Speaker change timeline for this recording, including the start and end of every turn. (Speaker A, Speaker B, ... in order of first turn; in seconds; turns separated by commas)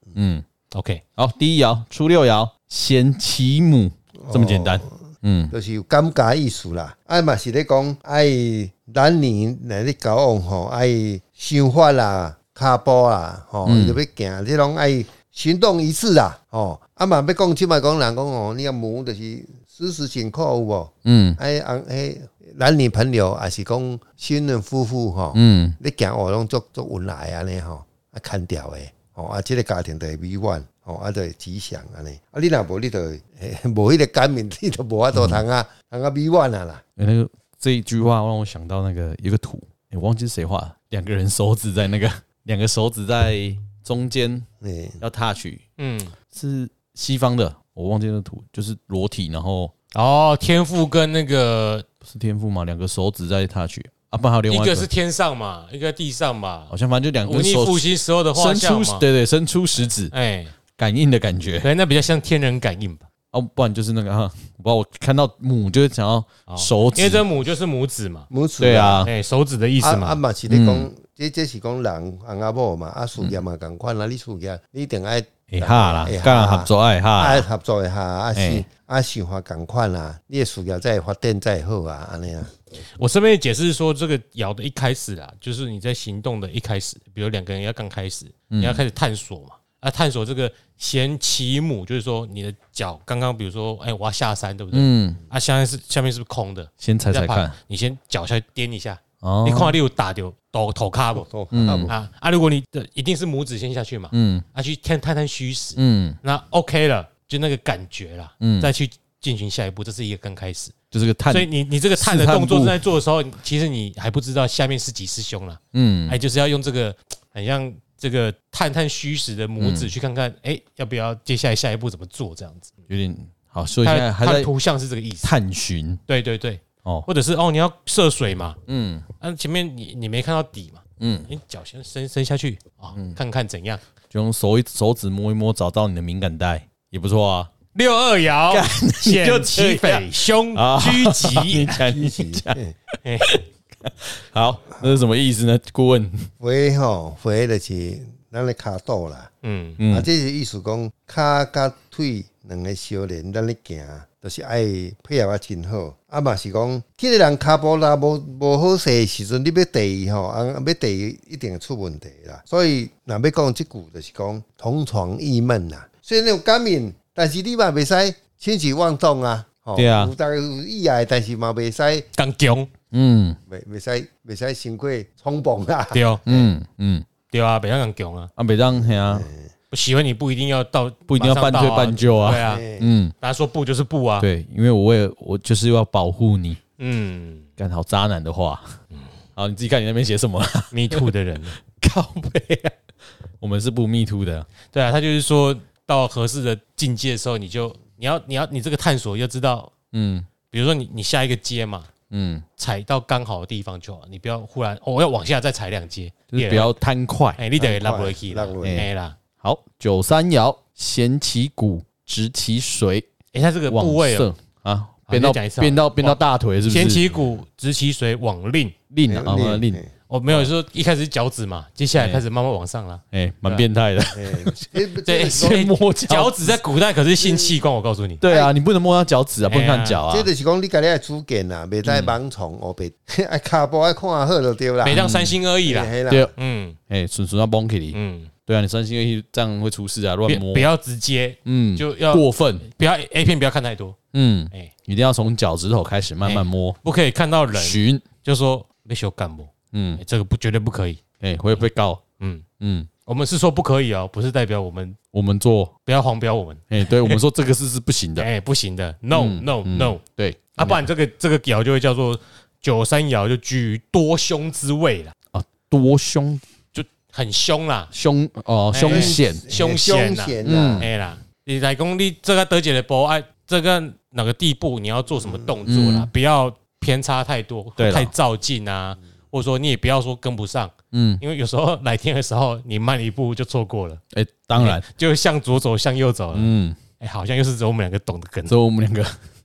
Speaker A: 0.1-0.4, Speaker B: 0.7-1.0, Speaker A: 1.2-5.5, Speaker C: 4.2-5.0, Speaker C: 5.5-36.8, Speaker A: 13.7-14.0, Speaker A: 21.1-21.4, Speaker A: 25.3-25.8, Speaker A: 37.0-44.5, Speaker C: 44.6-45.0, Speaker A: 45.0-45.6, Speaker B: 45.8-46.1, Speaker A: 46.3-49.7, Speaker B: 49.9-51.9, Speaker A: 52.0-54.9, Speaker B: 54.5-56.7, Speaker A: 56.7-60.1, Speaker B: 57.2-59.0, Speaker B: 60.1-60.5, Speaker A: 60.8-61.7, Speaker B: 61.6-63.0, Speaker A: 63.3-67.2, Speaker B: 66.5-68.3, Speaker C: 68.3-69.1, Speaker A: 68.6-69.1, Speaker B: 69.0-70.2, Speaker C: 69.8-82.5, Speaker A: 70.5-70.9, Speaker A: 75.5-77.5, Speaker A: 78.4-78.6, Speaker B: 83.0-101.3, Speaker A: 88.5-88.8, Speaker A: 94.7-95.2, Speaker A: 96.8-97.5, Speaker A: 99.2-99.8, Speaker C: 101.2-101.9, Speaker A: 101.5-101.9, Speaker B: 101.9-110.7, Speaker A: 104.1-104.5, Speaker A: 105.8-106.2, Speaker A: 108.4-108.7, Speaker A: 110.9-112.8, Speaker B: 111.3-122.7, Speaker A: 115.7-116.2, Speaker A: 119.6-119.9, Speaker A: 122.9-124.5, Speaker B: 123.8-125.3, Speaker A: 125.2-126.0, Speaker B: 126.1-128.6, Speaker A: 128.7-129.1, Speaker B: 129.2-133.8, Speaker A: 131.0-131.3, Speaker A: 134.1-137.5, Speaker B: 137.7-141.8, Speaker A: 138.5-146.3, Speaker C: 141.7-142.7, Speaker B: 143.0-143.4, Speaker C: 146.4-149.3, Speaker B: 149.4-149.8, Speaker A: 149.8-150.1, Speaker C: 149.9-172.1, Speaker A: 169.8-170.1, Speaker B: 172.2-172.7, Speaker A: 172.9-173.4, Speaker C: 173.5-176.5, Speaker B: 175.9-176.2, Speaker A: 176.3-177.1, Speaker B: 177.3-178.3, Speaker A: 178.4-179.3, Speaker C: 178.8-179.5, Speaker B: 179.7-182.6, Speaker A: 181.1-183.1, Speaker C: 182.3-182.9, Speaker B: 183.2-184.3, Speaker A: 184.2-186.6, Speaker B: 186.8-187.5, Speaker A: 187.6-188.8, Speaker A: 189.4-191.1, Speaker B: 190.7-191.6, Speaker A: 191.6-192.7, Speaker A: 193.4-194.5, Speaker B: 194.7-199.7, Speaker A: 199.9-200.3, Speaker B: 200.5-201.9, Speaker A: 202.1-202.4, Speaker B: 202.6-206.8, Speaker A: 206.3-207.4, Speaker B: 207.4-209.2, Speaker C: 207.6-208.9, Speaker A: 208.6-208.9, Speaker A: 209.4-213.1, Speaker B: 213.3-214.3, Speaker A: 213.7-217.1, Speaker B: 215.1-218.7, Speaker A: 218.9-219.8, Speaker C: 219.1-219.9, Speaker B: 220.1-223.7, Speaker A: 222.0-222.2, Speaker A: 223.1-224.6, Speaker C: 224.1-225.7, Speaker B: 225.1-228.2, Speaker A: 225.3-226.6, Speaker C: 227.2-227.5, Speaker A: 228.2-230.3, Speaker C: 228.2-228.5, Speaker B: 229.5-230.0, Speaker C: 230.1-235.0, Speaker A: 231.8-232.1, Speaker B: 234.8-236.8, Speaker A: 234.9-235.4, Speaker C: 235.7-236.3, Speaker A: 236.9-240.7, Speaker B: 237.9-238.3, Speaker B: 240.2-244.0, Speaker A: 241.4-242.7, Speaker A: 244.1-246.8, Speaker B: 246.2-251.0, Speaker A: 247.5-248.1, Speaker A: 249.7-250.0, Speaker A: 251.2-252.0, Speaker A: 252.6-252.9, Speaker B: 253.1-255.0, Speaker A: 255.1-255.7, Speaker B: 255.9-257.2, Speaker A: 256.7-258.3, Speaker B: 258.2-260.0, Speaker A: 259.1-260.9, Speaker B: 260.6-265.1, Speaker A: 265.3-266.4, Speaker B: 266.7-267.9, Speaker A: 267.9-269.5, Speaker B: 268.7-284.0, Speaker C: 268.9-270.9, Speaker A: 270.4-270.9, Speaker C: 275.2-275.6, Speaker A: 275.7-276.1, Speaker A: 277.8-278.1, Speaker A: 280.9-281.2, Speaker A: 284.1-284.8, Speaker B: 284.6-288.6, Speaker A: 286.3-286.8, Speaker A: 288.5-289.1